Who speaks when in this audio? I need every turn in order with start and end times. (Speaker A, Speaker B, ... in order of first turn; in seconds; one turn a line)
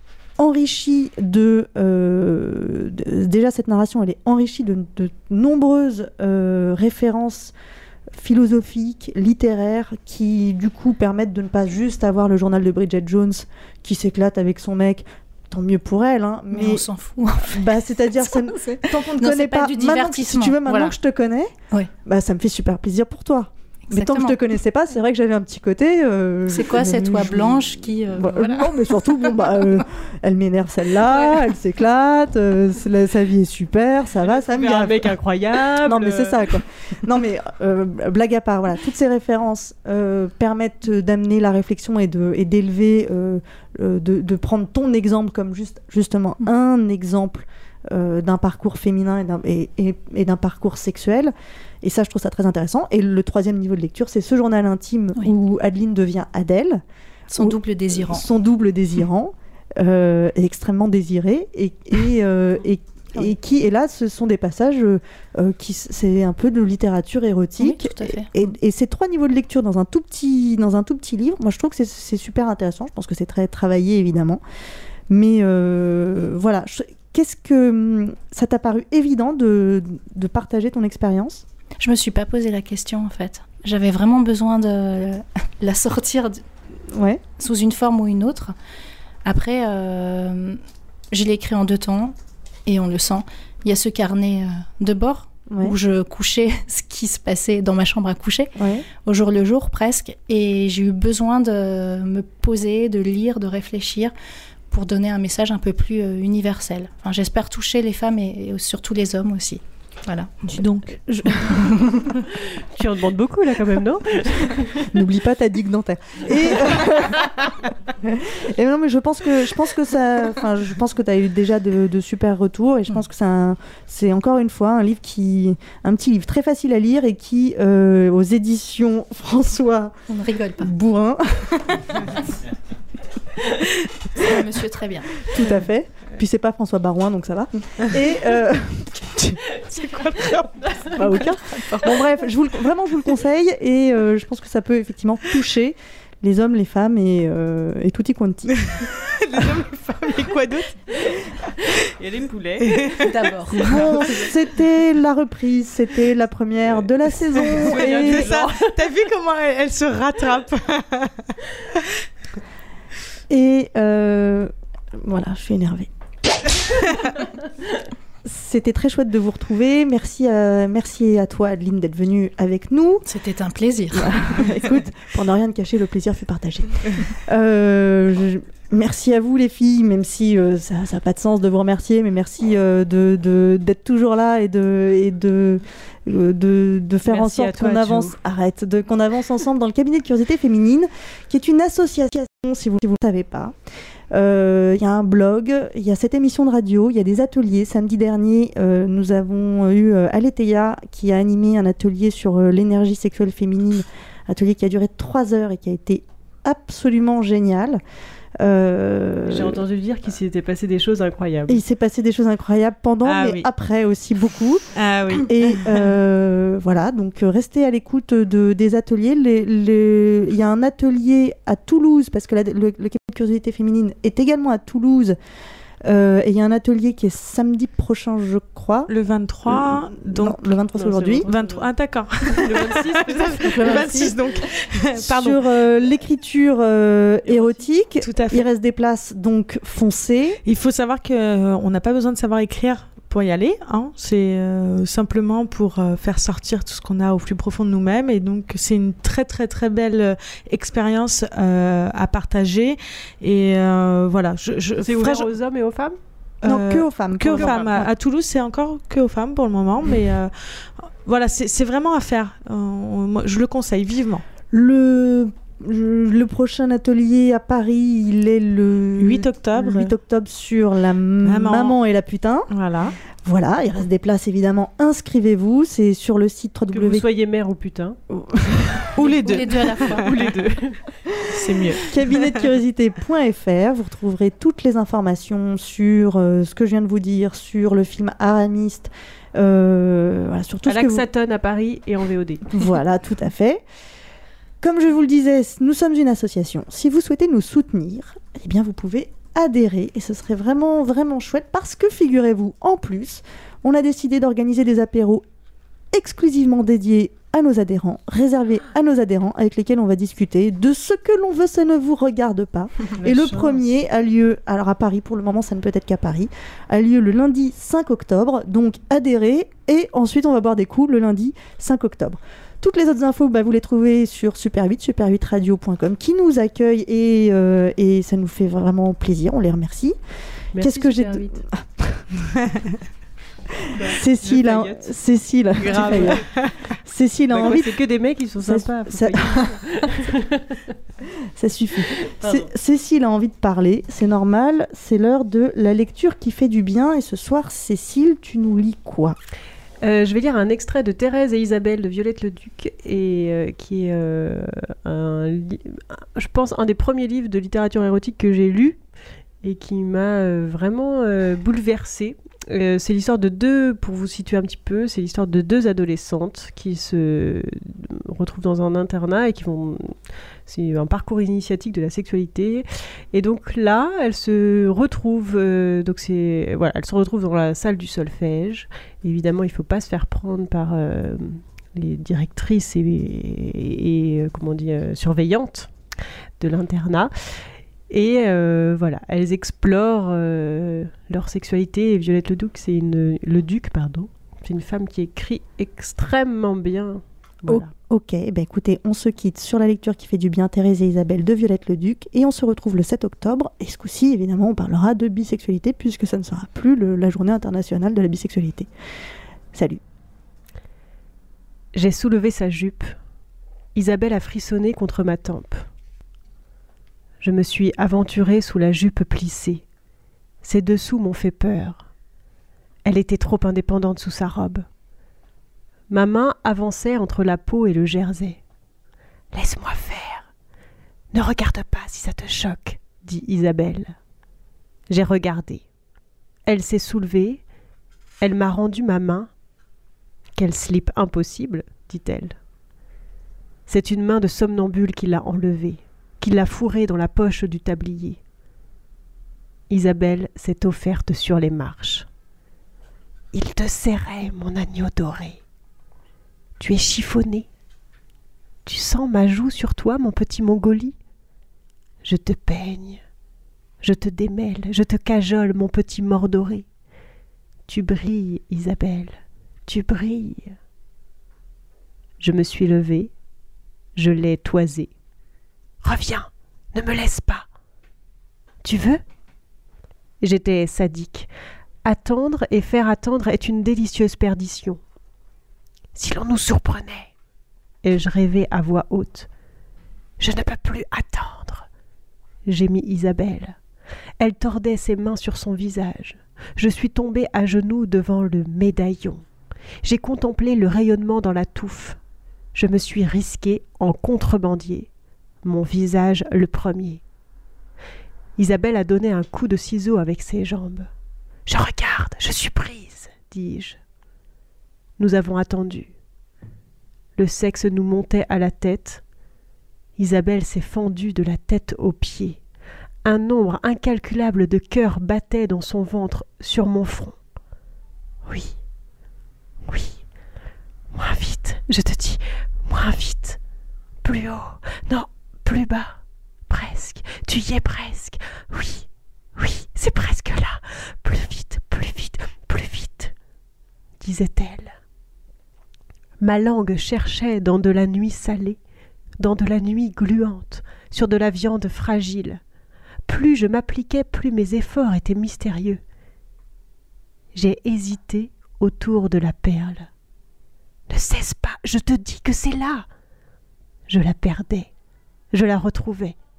Speaker A: 0.4-7.5
Speaker A: 8.1-21.5
Speaker B: 16.5-17.6
Speaker B: 18.2-20.9
Speaker A: 22.0-35.1
Speaker B: 23.9-24.4
Speaker B: 26.5-29.5
Speaker C: 31.1-31.4
Speaker C: 34.2-36.6
Speaker A: 35.8-56.8
Speaker B: 57.3-58.3
Speaker A: 57.4-74.4
Speaker B: 67.6-68.3
Speaker A: 75.1-81.4
Speaker B: 81.8-86.4
Speaker A: 86.9-87.2
Speaker B: 87.4-88.5
Speaker B: 89.2-90.6
Speaker B: 91.1-92.1
Speaker B: 92.7-98.5
Speaker A: 95.5-95.8
Speaker A: 98.6-98.8
Speaker B: 99.0-104.1
Speaker B: 104.7-110.6
Speaker A: 110.6-111.6
Speaker D: 110.6-111.0
Speaker B: 111.5-112.0
Speaker C: 112.7-114.9
Speaker A: 114.9-117.4
Speaker A: 118.0-129.9
Speaker B: 130.1-130.7
Speaker A: 130.6-132.0
Speaker B: 134.2-135.2
Speaker A: 135.3-139.4
Speaker D: 139.8-140.6
Speaker C: 140.6-140.9
Speaker A: 140.9-148.7
Speaker D: 148.5-150.8
Speaker C: 149.9-150.2
Speaker C: 151.0-151.3
Speaker C: 151.9-153.9
Speaker D: 152.6-153.1
Speaker B: 153.1-153.7
Speaker A: 153.6-158.3
Speaker C: 157.5-159.1
Speaker D: 157.7-161.2
Speaker A: 163.3-166.6
Speaker A: 168.2-173.1
Speaker B: 173.0-174.4
Speaker A: 173.9-193.5
Speaker C: 187.1-188.2
Speaker A: 194.1-207.8
Speaker A: 208.4-209.6
Speaker C: 209.3-211.6
Speaker A: 211.5-225.2
Speaker D: 213.0-213.5
Speaker D: 214.8-215.9
Speaker A: 225.8-228.9
Speaker D: 228.9-230.4
Speaker A: 229.4-231.2
Speaker C: 230.8-231.7
Speaker D: 231.2-235.4
Speaker C: 232.3-234.5
Speaker A: 235.0-240.4
Speaker C: 237.2-237.7
Speaker D: 238.0-238.4
Speaker D: 240.4-255.3
Speaker C: 254.8-256.0
Speaker D: 256.4-264.2
Speaker A: 256.4-257.9
Speaker C: 257.3-257.8
Speaker A: 264.5-272.5
Speaker D: 269.0-269.9
Speaker D: 271.2-271.8
Speaker D: 272.5-272.9
Speaker A: 273.2-277.0
Speaker C: 276.7-278.0
Speaker A: 278.1-278.8
Speaker D: 278.9-280.4
Speaker B: 279.2-280.1
Speaker C: 280.0-280.8
Speaker D: 281.3-281.8
Speaker A: 281.9-291.0
Speaker C: 290.7-292.4
Speaker A: 292.5-293.6
Speaker A: 294.6-305.2
Speaker A: 305.9-330.0
Speaker C: 313.0-313.6
Speaker C: 330.5-331.4
Speaker A: 330.6-332.0
Speaker C: 333.7-334.9
Speaker A: 333.8-336.2
Speaker C: 335.6-336.3
Speaker D: 335.8-336.5
Speaker A: 336.8-337.7
Speaker C: 337.3-340.6
Speaker A: 338.4-339.6
Speaker A: 341.4-349.2
Speaker C: 342.1-342.5
Speaker C: 349.8-358.8
Speaker C: 359.4-369.9
Speaker C: 370.5-385.7
Speaker C: 386.4-397.7
Speaker A: 397.4-408.7
Speaker A: 409.5-409.8
Speaker C: 411.7-412.9
Speaker C: 413.7-415.7
Speaker C: 417.2-419.6
Speaker C: 420.4-421.8
Speaker C: 422.8-424.6
Speaker C: 425.9-428.4
Speaker C: 429.3-430.3
Speaker C: 431.1-433.9
Speaker C: 434.9-435.6
Speaker C: 436.5-437.4
Speaker C: 438.2-439.3
Speaker C: 440.4-442.4
Speaker C: 443.7-448.2
Speaker C: 449.7-452.1
Speaker C: 453.3-455.4
Speaker C: 456.6-457.4
Speaker C: 458.6-460.9
Speaker C: 462.0-463.0
Speaker C: 463.8-466.6
Speaker C: 467.7-470.5
Speaker C: 472.2-473.1
Speaker C: 473.9-474.9
Speaker C: 475.8-477.4
Speaker C: 478.6-479.0
Speaker C: 480.2-481.3
Speaker C: 481.8-484.8
Speaker C: 485.9-487.1
Speaker C: 487.8-489.3
Speaker C: 490.2-491.7
Speaker C: 492.4-493.6
Speaker C: 494.2-499.2
Speaker C: 499.8-502.0
Speaker C: 502.5-504.9
Speaker C: 505.4-507.0
Speaker C: 508.4-510.9
Speaker C: 511.4-513.8
Speaker C: 515.0-515.9
Speaker C: 517.2-519.0
Speaker C: 520.0-522.4
Speaker C: 523.0-527.2
Speaker C: 528.2-528.5
Speaker C: 529.7-530.0
Speaker C: 530.9-533.4
Speaker C: 534.0-543.1
Speaker C: 544.0-544.7
Speaker C: 546.2-548.6
Speaker C: 549.2-552.4
Speaker C: 553.1-555.8
Speaker C: 557.3-559.9
Speaker C: 560.9-562.9
Speaker C: 563.9-564.7
Speaker C: 565.3-566.1